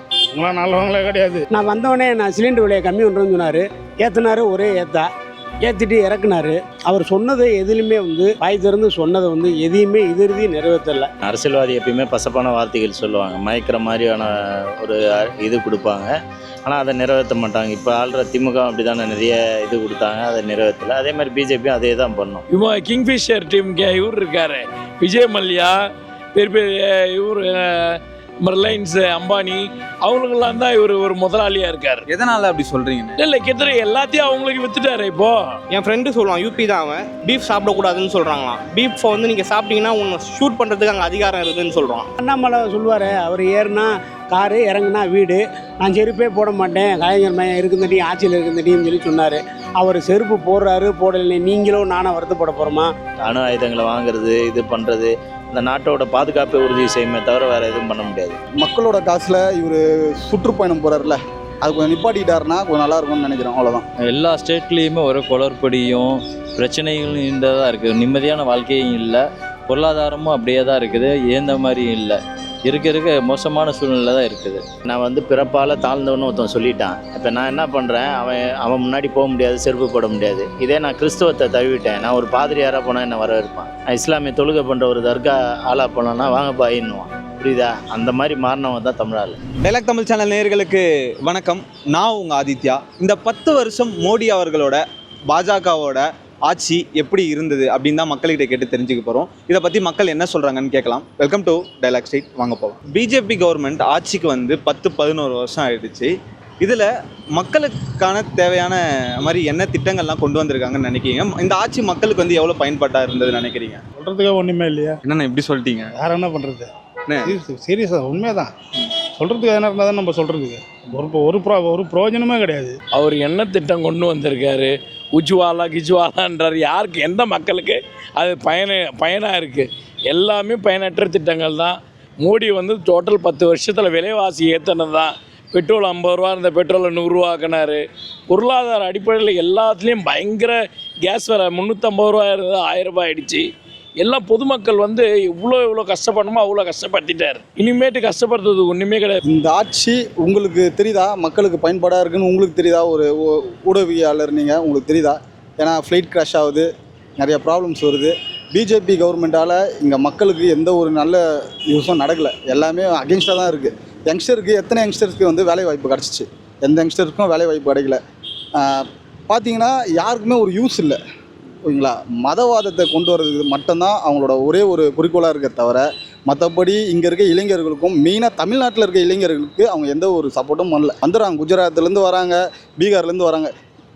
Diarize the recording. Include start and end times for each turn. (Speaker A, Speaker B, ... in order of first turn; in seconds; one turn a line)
Speaker A: 0.3-1.4
Speaker B: 1.5-5.1
Speaker B: 5.6-11.1
Speaker C: 11.2-16.1
Speaker C: 16.6-22.4
Speaker D: 22.5-25.7
Speaker D: 26.3-32.0
Speaker E: 32.1-33.2
Speaker D: 33.2-35.5
Speaker F: 35.7-42.1
Speaker B: 42.2-52.9
Speaker C: 53.2-58.4
Speaker G: 58.6-63.8
Speaker H: 64.0-74.6
Speaker C: 74.8-89.4
Speaker E: 89.6-113.8
Speaker A: 114.0-115.0
Speaker E: 115.0-115.9
Speaker A: 116.0-116.7
Speaker E: 117.1-117.4
Speaker A: 117.2-118.5
Speaker A: 119.2-122.8
Speaker D: 122.9-143.4
Speaker D: 144.0-149.2
Speaker G: 149.2-168.0
Speaker G: 168.6-171.0
Speaker G: 171.6-183.5